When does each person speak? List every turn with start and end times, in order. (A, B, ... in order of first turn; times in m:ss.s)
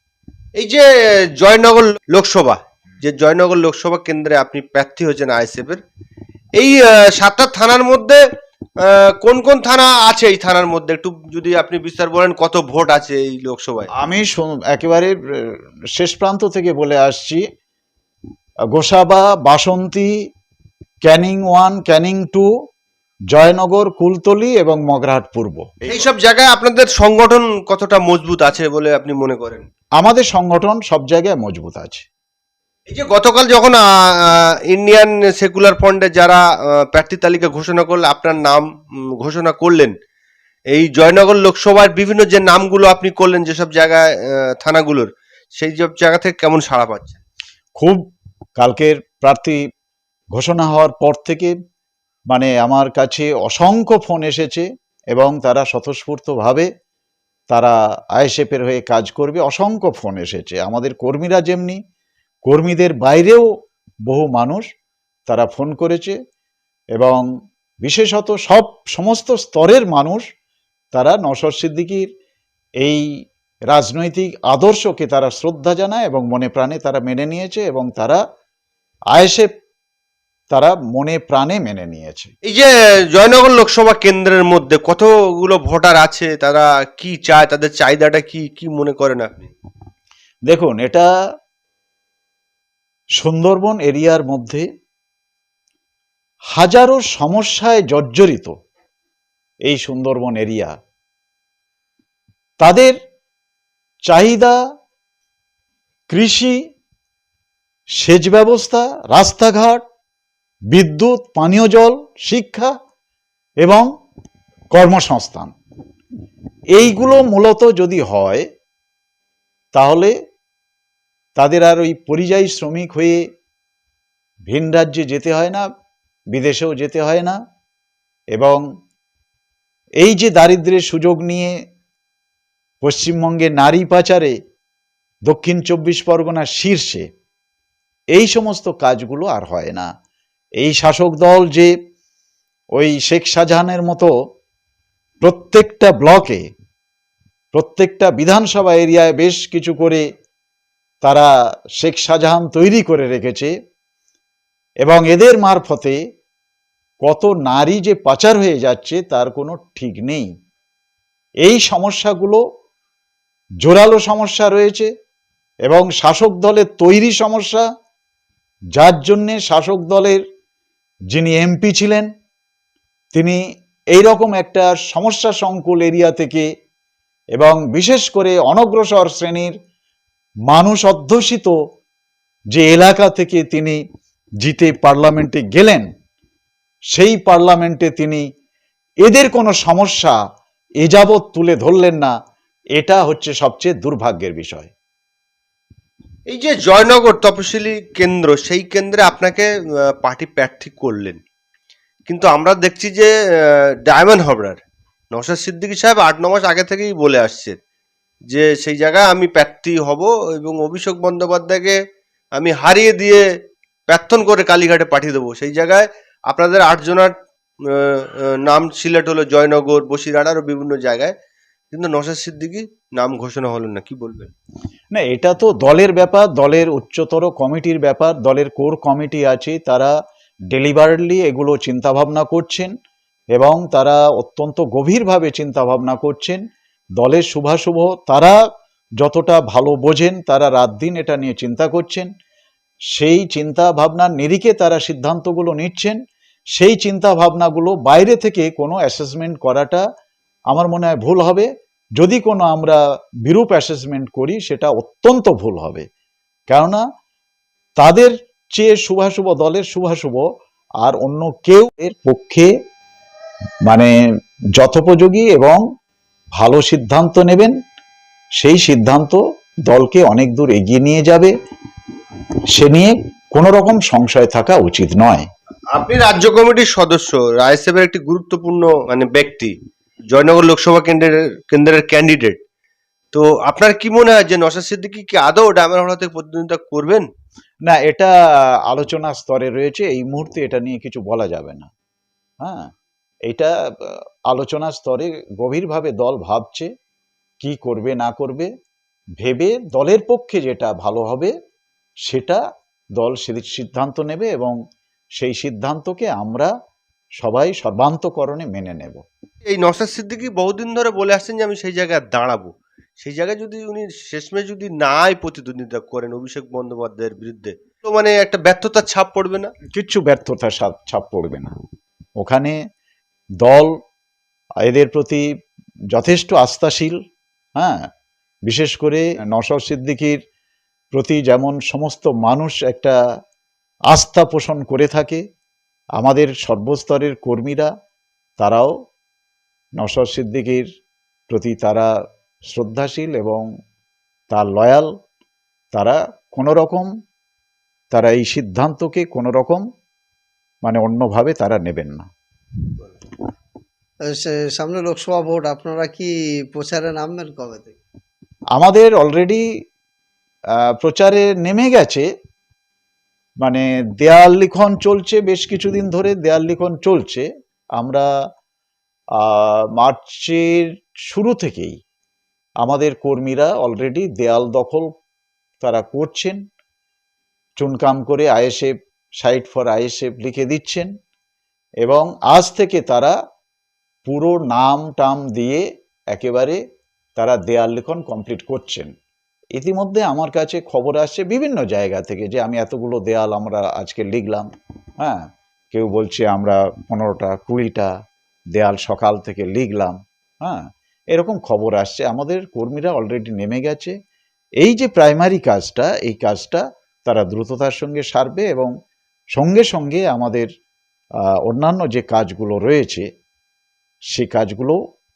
0:00.6-0:05.8 A
0:06.6-0:08.2 A
0:08.8-0:13.9 A
0:13.9-0:17.4 B
0:18.7-0:20.1 B
0:21.0-0:22.5 B
0:23.3-0:25.7 B
0:25.9-0:29.7 A
0:30.0-0:32.1 B
0:32.9-0:38.7 A
0:39.2-0:39.9 A
0:40.7-0:47.2 A
0:47.8-0:48.0 B
0:48.6-0:49.6 B
0:50.4-0:51.5 B
0:52.3-0:56.7 B
0:57.5-1:01.8 B
1:02.5-1:03.5 B
1:04.1-1:04.6 B
1:05.3-1:06.2 B
1:07.0-1:07.2 B
1:07.8-1:10.2 B
1:10.9-1:12.1 B
1:12.8-1:13.0 B
1:13.7-1:18.2 B
1:19.1-1:19.5 B
1:20.5-1:22.3 B
1:22.5-1:29.5 A
1:30.5-1:31.1 B
1:33.2-1:34.6 B
1:36.6-1:38.5 B
1:39.7-1:40.7 B
1:42.6-1:43.0 B
1:44.1-1:44.6 B
1:46.1-1:46.6 B
1:48.0-1:49.8 B
1:50.7-1:52.7 B
1:53.6-1:53.9 B
1:54.7-1:55.5 B
1:56.7-1:58.4 B
1:59.8-2:00.1 B
2:01.4-2:03.2 B
2:04.5-2:05.6 B
2:06.3-2:07.4 B
2:08.4-2:08.6 B
2:10.0-2:11.5 B
2:12.8-2:14.4 B
2:15.3-2:17.1 B
2:18.2-2:19.9 B
2:20.6-2:21.7 B
2:22.8-2:24.1 B
2:25.2-2:26.4 B
2:27.5-2:30.0 B
2:31.0-2:33.5 B
2:34.8-2:36.0 B
2:37.0-2:40.3 B
2:41.4-2:42.4 B
2:43.6-2:44.9 B
2:45.7-2:47.6 B
2:48.8-2:50.2 B
2:51.1-2:52.1 B
2:53.1-2:53.4 B
2:53.9-2:56.5 B
2:57.4-2:59.5 B
3:00.5-3:01.6 B
3:02.5-3:03.8 B
3:04.4-3:05.9 B
3:06.9-3:08.2 B
3:09.0-3:10.2 B
3:10.8-3:12.1 B
3:12.8-3:14.7 B
3:16.3-3:19.5 A
3:20.0-3:21.2 A
3:22.1-3:23.1 A
3:23.8-3:24.6 A
3:25.1-3:27.6 A
3:28.3-3:31.8 A
3:32.4-3:33.2 A
3:33.9-3:37.1 A
3:37.6-3:41.1 A
3:41.7-3:44.3 A
3:44.9-3:49.9 B
3:50.5-3:52.7 B
3:53.3-3:56.4 B
3:57.0-3:58.4 B
3:59.0-4:02.1 B
4:03.0-4:06.0 B
4:06.6-4:09.8 B
4:10.5-4:11.5 B
4:12.0-4:15.8 B
4:16.5-4:16.8 B
4:17.8-4:20.3 B
4:20.8-4:22.5 B
4:23.7-4:23.9 B
4:24.6-4:25.6 B
4:26.4-4:27.6 B
4:28.4-4:31.3 B
4:32.5-4:35.2 B
4:35.8-4:39.5 A
4:40.1-4:42.4 A
4:43.1-4:47.1 A
4:47.7-4:48.1 B
4:48.7-4:51.7 B
4:52.4-4:52.7 B
4:53.3-4:56.7 B
4:57.4-4:58.5 B
4:59.2-5:01.3 B
5:02.1-5:02.4 B
5:03.0-5:04.6 B
5:05.2-5:06.5 B
5:07.2-5:09.0 B
5:09.4-5:19.5 A
5:19.7-5:21.6 B
5:22.2-5:22.6 B
5:23.4-5:23.7 B
5:24.6-5:25.2 B
5:25.9-5:27.0 B
5:27.6-5:27.9 B
5:28.5-5:30.2 B
5:30.9-5:33.0 B
5:33.9-5:35.2 B
5:36.0-5:37.7 B
5:38.4-5:38.7 B
5:39.8-5:40.7 B
5:41.3-5:41.9 B
5:42.5-5:43.5 B
5:44.3-5:44.9 B
5:45.7-5:46.9 B
5:47.9-5:49.6 B
5:50.6-5:52.1 B
5:54.1-5:57.8 C
5:58.6-5:59.5 B
6:00.8-6:02.1 B
6:03.4-6:07.3 B
6:07.8-6:08.1 B
6:09.2-6:11.8 B
6:12.6-6:14.9 B
6:15.6-6:16.4 B
6:17.6-6:20.9 B
6:21.8-6:23.2 B
6:24.1-6:26.6 B
6:27.2-6:28.9 B
6:29.6-6:34.5 B
6:35.0-6:37.9 B
6:38.6-6:43.9 B
6:44.6-6:48.7 B
6:49.4-6:50.5 B
6:51.5-6:53.0 B
6:54.1-6:54.8 B